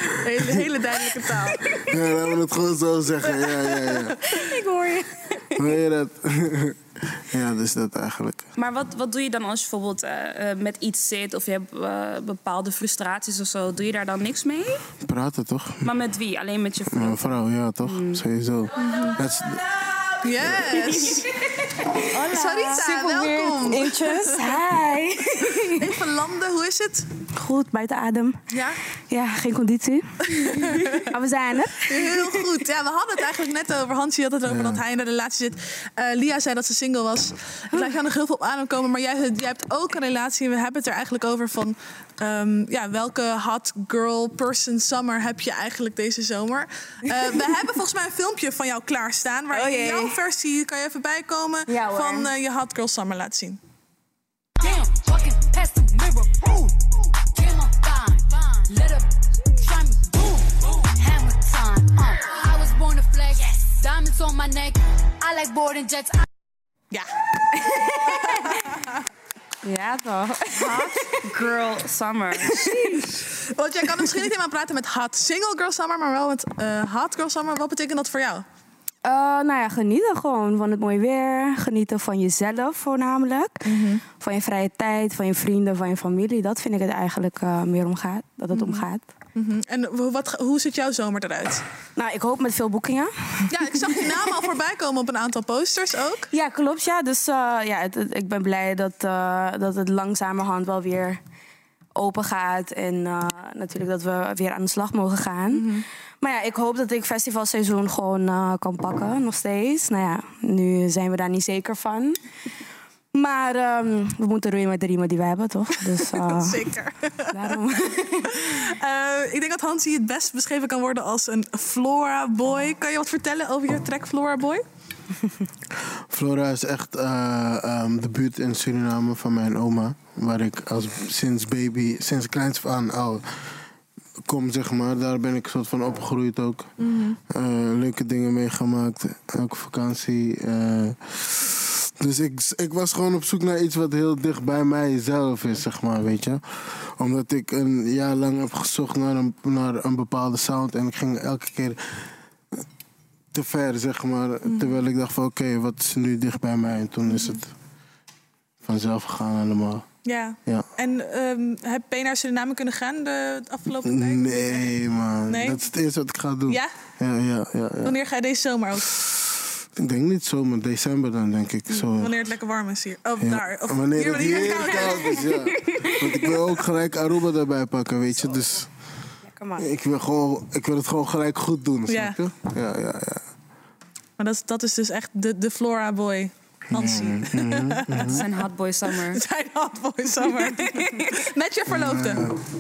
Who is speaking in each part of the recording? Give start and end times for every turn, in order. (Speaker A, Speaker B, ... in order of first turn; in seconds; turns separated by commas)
Speaker A: 0.2-1.6, Speaker B: 1.9-4.2, Speaker C: 4.3-5.1, Speaker B: 5.6-6.8, Speaker B: 7.3-8.5, Speaker C: 8.6-14.8, Speaker B: 15.1-15.9, Speaker C: 15.8-17.2, Speaker B: 16.9-19.6, Speaker C: 17.8-18.2, Speaker A: 18.8-19.2, Speaker A: 20.2-21.3, Speaker C: 21.0-21.2, Speaker D: 21.8-25.9, Speaker A: 22.1-24.6, Speaker A: 25.6-27.1, Speaker D: 27.4-28.4, Speaker A: 28.5-28.8, Speaker D: 29.1-32.6, Speaker A: 30.4-31.0, Speaker A: 31.9-53.6, Speaker B: 34.4-34.8, Speaker D: 49.5-50.2, Speaker C: 51.7-52.3, Speaker E: 54.6-56.7, Speaker E: 57.3-59.1, Speaker E: 59.6-66.3, Speaker D: 67.5-68.7, Speaker A: 68.2-68.6, Speaker D: 69.6-70.9, Speaker A: 70.6-71.0, Speaker C: 71.2-73.0, Speaker A: 73.6-78.5, Speaker D: 79.0-83.6, Speaker A: 83.7-84.0, Speaker D: 84.1-89.0, Speaker A: 88.5-91.6, Speaker D: 92.0-94.3, Speaker A: 93.5-96.3, Speaker D: 96.3-101.2, Speaker D: 102.0-112.2, Speaker A: 105.5-105.8, Speaker D: 113.1-116.7, Speaker A: 116.0-117.7, Speaker D: 117.3-118.6, Speaker A: 118.3-124.6, Speaker B: 126.1-133.3, Speaker B: 134.2-136.7, Speaker A: 136.8-137.2, Speaker B: 137.3-152.1, Speaker B: 153.3-157.5, Speaker A: 154.4-154.8, Speaker A: 157.1-157.4, Speaker B: 158.6-159.9, Speaker A: 160.1-164.7, Speaker B: 163.8-168.0, Speaker A: 165.3-165.6, Speaker A: 167.8-169.0, Speaker B: 169.8-172.3, Speaker A: 171.8-175.3, Speaker B: 173.2-178.7, Speaker D: 174.4-176.3, Speaker D: 178.2-178.6, Speaker D: 179.3-179.7, Speaker B: 179.6-183.3, Speaker A: 181.9-182.2, Speaker A: 184.2-188.2, Speaker B: 186.7-188.2, Speaker C: 188.0-189.2, Speaker A: 189.1-192.3, Speaker B: 191.7-192.4